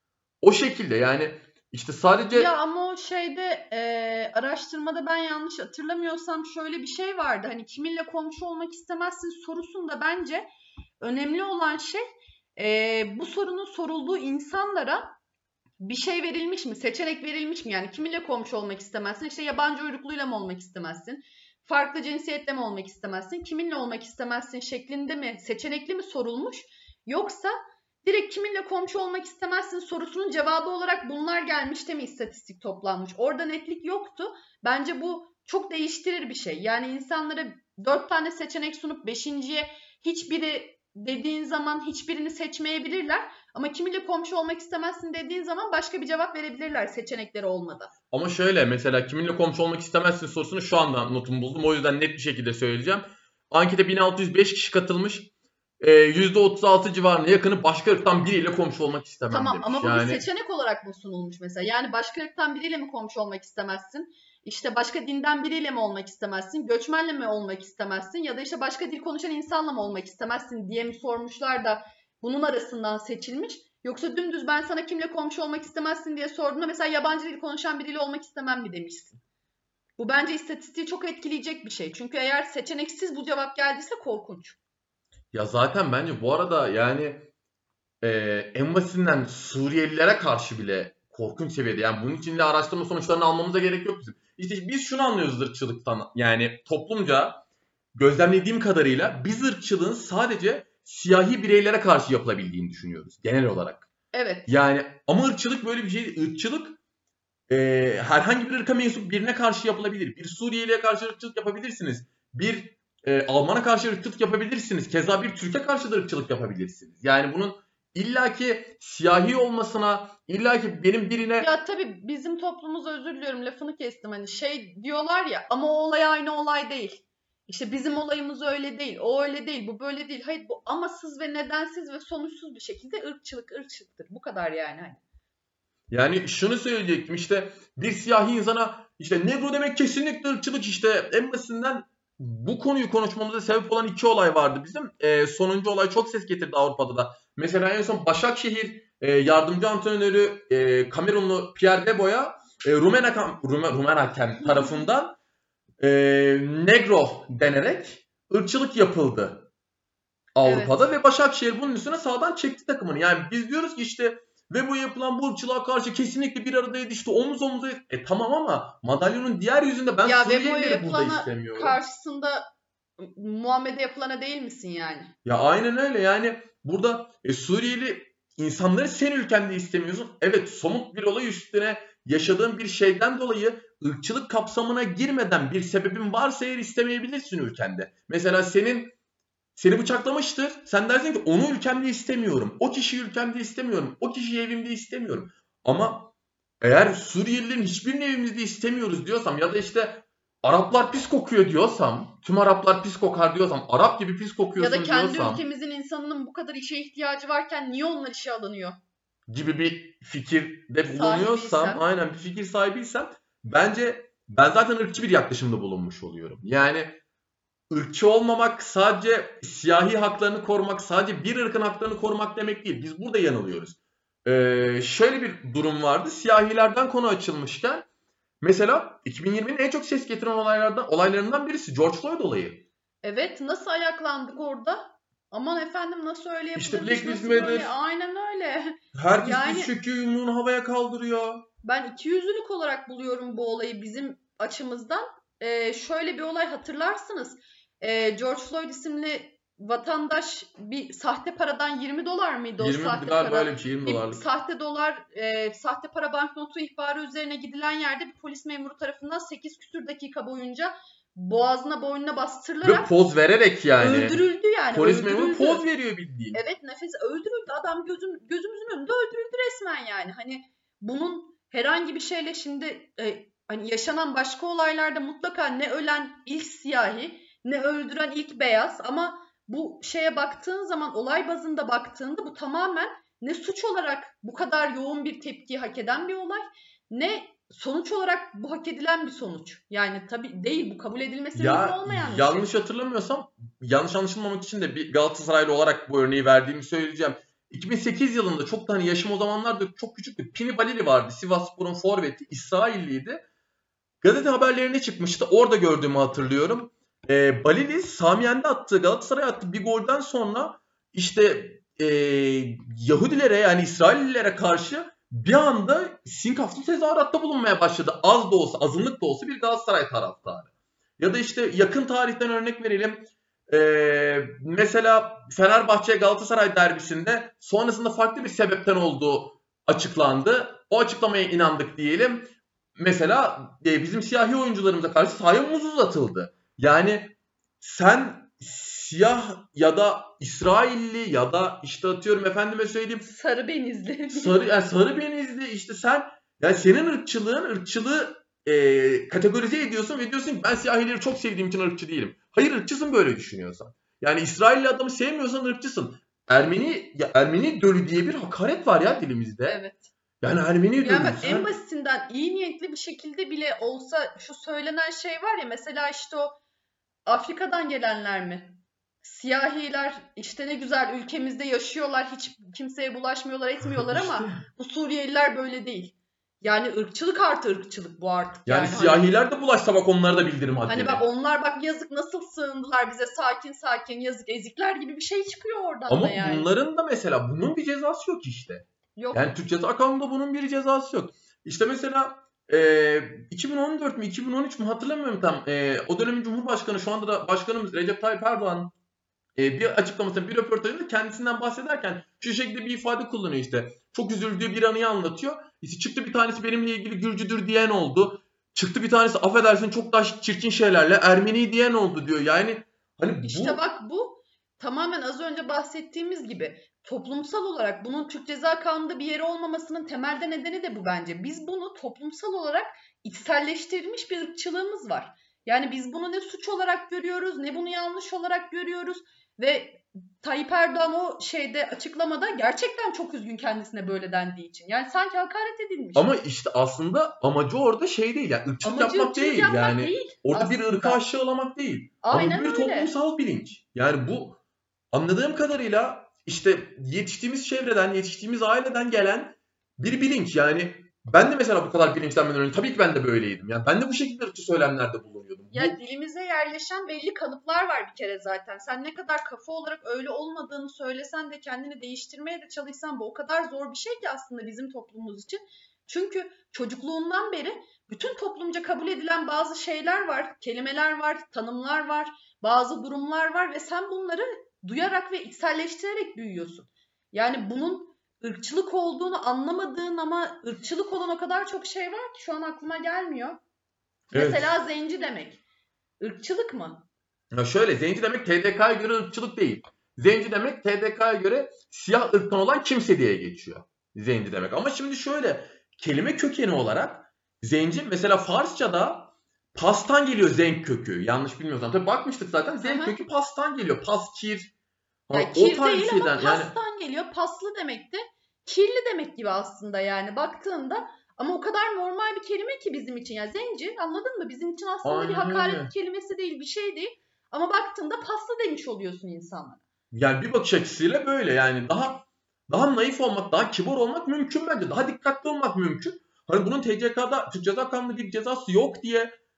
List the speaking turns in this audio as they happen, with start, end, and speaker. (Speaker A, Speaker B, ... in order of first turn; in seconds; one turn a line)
Speaker A: 0.4-2.5
Speaker B: 2.3-10.4
Speaker B: 11.0-12.0
Speaker B: 12.6-15.1
Speaker B: 15.8-27.5
Speaker B: 28.0-47.9
Speaker A: 48.1-60.2
Speaker B: 59.3-79.2
Speaker B: 80.0-84.6
Speaker A: 85.3-87.3
Speaker A: 88.0-97.4
Speaker A: 97.9-103.9
Speaker B: 104.1-104.5
Speaker A: 104.5-106.8
Speaker A: 107.5-121.5
Speaker B: 121.4-135.0
Speaker A: 135.9-155.2
Speaker A: 155.8-159.5
Speaker A: 160.3-171.8
Speaker B: 160.4-160.9
Speaker B: 170.0-172.5
Speaker B: 173.0-175.1
Speaker A: 175.2-188.9
Speaker A: 189.5-205.4
Speaker B: 204.6-208.8
Speaker A: 209.3-217.0
Speaker B: 210.8-211.8
Speaker A: 217.7-227.8
Speaker A: 228.4-232.7
Speaker B: 233.0-239.7
Speaker A: 236.6-237.7
Speaker A: 238.9-241.5
Speaker B: 241.6-262.9
Speaker A: 252.6-254.2
Speaker A: 262.6-264.2
Speaker B: 263.8-265.6
Speaker A: 264.7-266.4
Speaker B: 266.3-292.5
Speaker A: 291.3-303.2
Speaker A: 304.0-343.1
Speaker B: 343.0-344.4
Speaker A: 344.1-359.6
Speaker B: 359.5-359.9
Speaker A: 360.2-361.5
Speaker B: 360.8-366.4
Speaker B: 367.1-379.1
Speaker A: 373.7-374.4
Speaker A: 378.4-381.1
Speaker B: 380.7-386.5
Speaker A: 385.9-398.7
Speaker B: 388.9-389.3
Speaker A: 399.4-413.6
Speaker B: 413.2-436.1
Speaker A: 435.9-444.4
Speaker B: 438.6-441.0
Speaker B: 442.0-442.9
Speaker A: 444.9-455.8
Speaker B: 455.5-483.4
Speaker B: 484.1-485.4
Speaker A: 484.1-484.5
Speaker B: 486.0-486.9
Speaker A: 487.3-504.5
Speaker B: 502.6-502.9
Speaker A: 505.1-506.5
Speaker B: 505.1-519.6
Speaker A: 514.8-515.7
Speaker A: 519.9-529.1